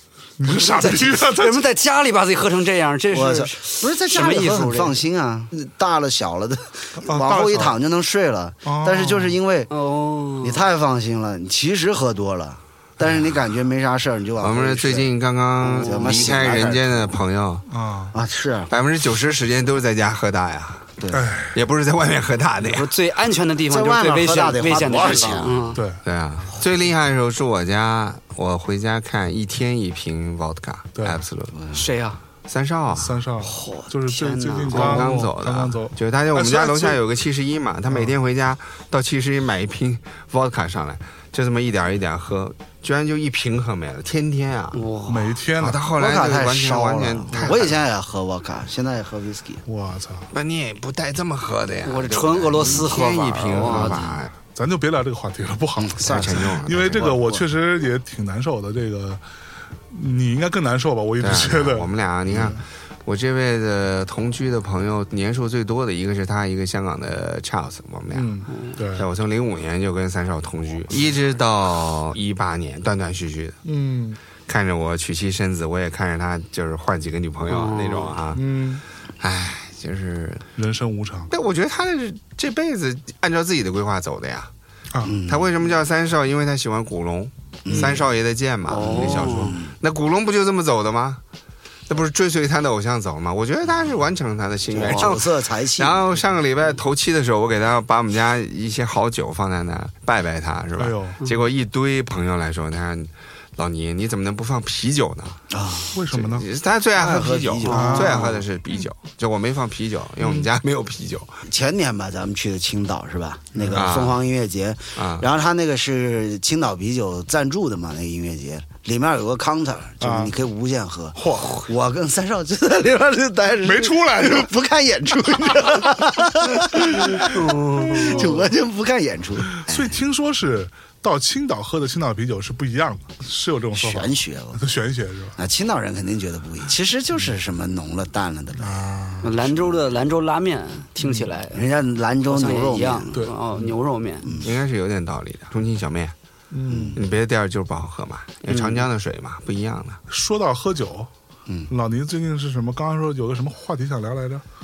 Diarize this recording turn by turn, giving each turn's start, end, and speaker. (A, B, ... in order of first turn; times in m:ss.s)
0:00.4-0:01.7 A
0:00.5-0:05.0 B
0:03.1-0:09.7 C
0:07.0-0:07.8 A
0:08.6-0:09.4 A
0:09.7-0:10.6 B
0:10.4-0:17.2 C
0:13.0-0:13.3 A
0:14.4-0:17.7 D
0:15.7-0:16.3 B
0:17.7-0:18.2 A
0:18.1-0:18.7 C
0:18.7-0:21.0 D
0:21.1-0:21.6 A
0:21.6-0:22.9 D
0:22.6-0:25.8 B
0:23.7-0:25.6 C
0:25.7-0:26.0 A
0:26.0-0:31.6 D
0:31.0-0:31.2 A
0:31.7-0:32.2 B
0:32.5-0:33.2 D
0:32.9-0:37.0 A
0:33.4-0:35.1 B
0:34.7-0:44.8 D
0:44.7-0:45.4 B
0:45.1-0:45.8 A
0:45.6-0:47.8 D
0:46.0-0:49.6 C
0:49.7-0:50.3 A
0:50.3-0:54.3 D
0:51.9-0:54.0 B
0:53.7-0:54.2 C
0:54.4-0:59.2 A
0:55.8-0:57.4 C
0:56.1-0:57.2 D
0:59.9-1:02.6 A
1:01.2-1:08.3 D
1:08.1-1:09.1 A
1:08.5-1:08.8 B
1:09.0-1:13.6 D
1:13.6-1:14.2 A
1:14.5-1:18.4 D
1:17.5-1:18.2 B
1:18.3-1:18.8 A
1:19.2-1:20.4 D
1:20.6-1:21.3 A
1:21.3-1:24.5 D
1:25.0-1:25.6 C
1:25.2-1:31.2 D
1:27.6-1:28.1 C
1:28.7-1:29.6 B
1:28.8-1:29.7 C
1:31.9-1:45.4 D
1:34.7-1:36.1 C
1:40.8-1:41.2 A
1:45.5-1:45.9 C
1:45.9-1:46.5 A
1:46.1-1:51.4 D
1:47.0-1:48.2 C
1:47.7-1:48.3 A
1:47.7-1:48.3 B
1:51.4-2:07.4 C
1:53.6-1:53.9 A
1:53.7-1:54.2 D
1:55.0-1:55.3 D
2:00.0-2:00.3 A
2:01.2-2:01.6 A
2:03.6-2:04.5 A
2:06.9-2:07.1 A
2:07.1-2:08.4 B
2:07.8-2:08.4 A
2:08.1-2:10.0 C
2:09.5-2:15.4 A
2:13.7-2:14.6 C
2:15.4-2:19.8 C
2:18.6-2:19.4 A
2:19.2-2:21.6 B
2:21.0-2:21.4 A
2:21.5-2:23.2 C
2:22.3-2:24.3 B
2:23.1-2:23.7 A
2:24.4-2:26.1 D
2:26.5-2:27.0 A
2:26.7-2:27.0 C
2:27.0-2:30.0 D
2:28.5-2:28.8 B
2:30.1-2:31.1 A
2:31.7-2:34.4 A